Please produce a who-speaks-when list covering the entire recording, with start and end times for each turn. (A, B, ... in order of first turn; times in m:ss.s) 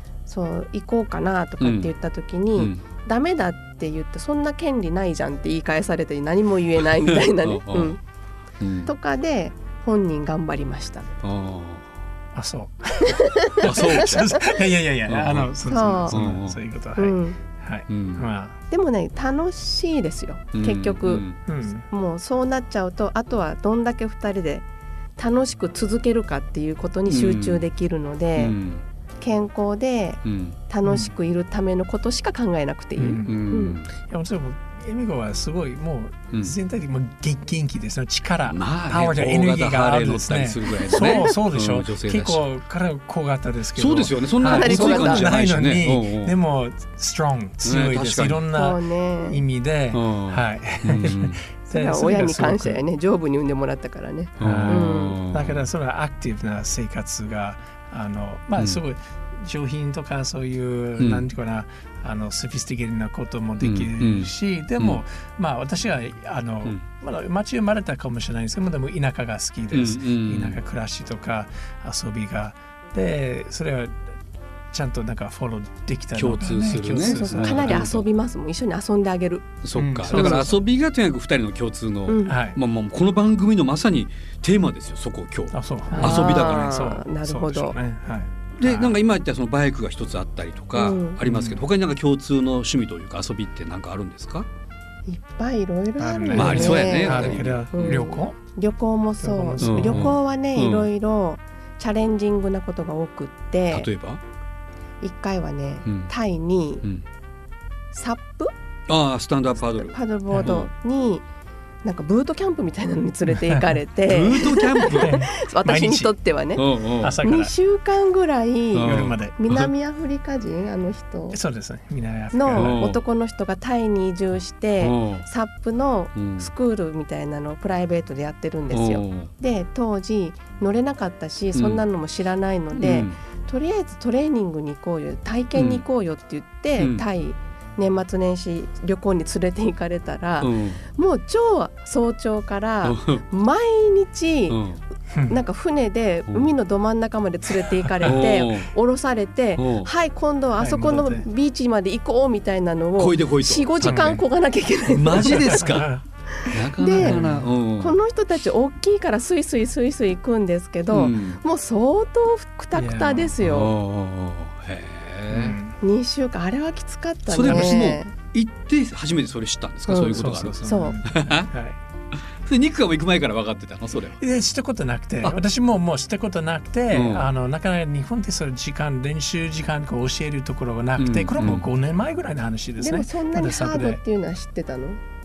0:00.3-0:08.0 A
0:01.6-0:01.9 B
0:06.8-0:08.0 B
0:08.6-0:08.9 B
0:08.8-0:11.1 A
0:11.2-0:11.9 B
0:12.3-0:18.6 C
0:13.0-0:14.6 A
0:13.6-0:14.3 B
0:15.1-0:15.5 B
0:15.7-0:16.2 A
0:16.1-0:16.6 B
0:17.0-0:17.4 A
0:17.9-0:18.3 B
0:18.7-0:21.3 A
0:20.5-0:21.4 B
0:21.4-0:21.8 C
0:21.9-0:24.6 A
0:25.2-0:28.6 A
0:27.1-0:27.6 B
0:28.4-0:28.8 B
0:29.2-0:33.8 A
0:30.2-0:30.6 B
0:33.0-0:52.8 C
0:33.2-0:33.9 B
0:38.5-0:42.4 B
0:40.9-0:41.3 A
0:43.8-0:46.3 B
0:44.4-0:45.3 A
0:47.6-0:48.4 B
0:48.5-0:49.4 A
0:49.9-0:51.4 B
0:51.7-0:55.2 A
0:54.4-0:55.5 B
0:54.4-1:14.0 C
1:01.0-1:01.2 B
1:03.6-1:05.0 B
1:09.7-1:10.6 B
1:14.7-1:18.0 C
1:16.1-1:18.0 B
1:17.0-1:20.5 A
1:19.6-1:26.8 B
1:19.8-1:20.6 C
1:22.1-1:22.4 A
1:22.2-1:22.6 C
1:25.5-1:29.0 C
1:25.9-1:27.8 A
1:28.6-1:34.5 B
1:30.7-1:31.2 A
1:31.2-1:31.6 C
1:35.1-1:43.9 A
1:36.0-1:38.4 C
1:36.3-1:38.1 B
1:39.2-1:40.2 C
1:39.6-1:40.9 B
1:43.7-1:44.2 B
1:45.0-1:46.8 A
1:45.8-1:46.1 B
1:47.9-1:48.5 A
1:48.9-1:50.7 B
1:49.6-1:51.2 A
1:50.3-1:50.6 C
1:51.8-1:56.7 A
1:53.3-1:53.8 C
1:54.0-1:55.2 B
1:55.0-1:56.1 C
1:56.6-1:57.2 B
1:57.0-1:57.5 C
1:57.2-2:01.4 A
1:58.7-1:59.7 B
1:58.8-1:59.4 C
2:01.3-2:02.8 C
2:02.3-2:24.6 A
2:02.5-2:03.0 B
2:04.8-2:05.2 B
2:06.1-2:06.5 B
2:08.7-2:09.3 B
2:11.5-2:11.8 B
2:12.7-2:13.2 B
2:15.5-2:15.8 B
2:16.8-2:17.0 B
2:20.4-2:20.8 B
2:22.8-2:23.2 B
2:24.5-2:24.8 B
2:25.1-2:25.4 C
2:25.3-2:35.7 A
2:27.6-2:28.3 C
2:28.0-2:28.7 B
2:29.6-2:29.9 B
2:30.6-2:31.3 C
2:33.0-2:34.2 B
2:33.8-2:34.2 C
2:34.9-2:35.9 B
2:35.2-2:36.0 C
2:36.4-2:37.2 A
2:36.5-2:38.0 B
2:36.9-2:37.5 C
2:37.8-2:43.7 A
2:40.9-2:41.4 B
2:42.7-2:43.4 C
2:43.4-2:45.6 B
2:45.3-2:45.8 C
2:45.8-2:48.1 A
2:47.3-2:51.5 B
2:47.4-2:47.7 C
2:49.9-2:51.0 A
2:50.0-2:51.8 C
2:52.4-2:54.2 B
2:54.2-3:04.0 C
2:56.9-2:57.3 B
3:01.0-3:01.7 B
3:02.8-3:05.0 A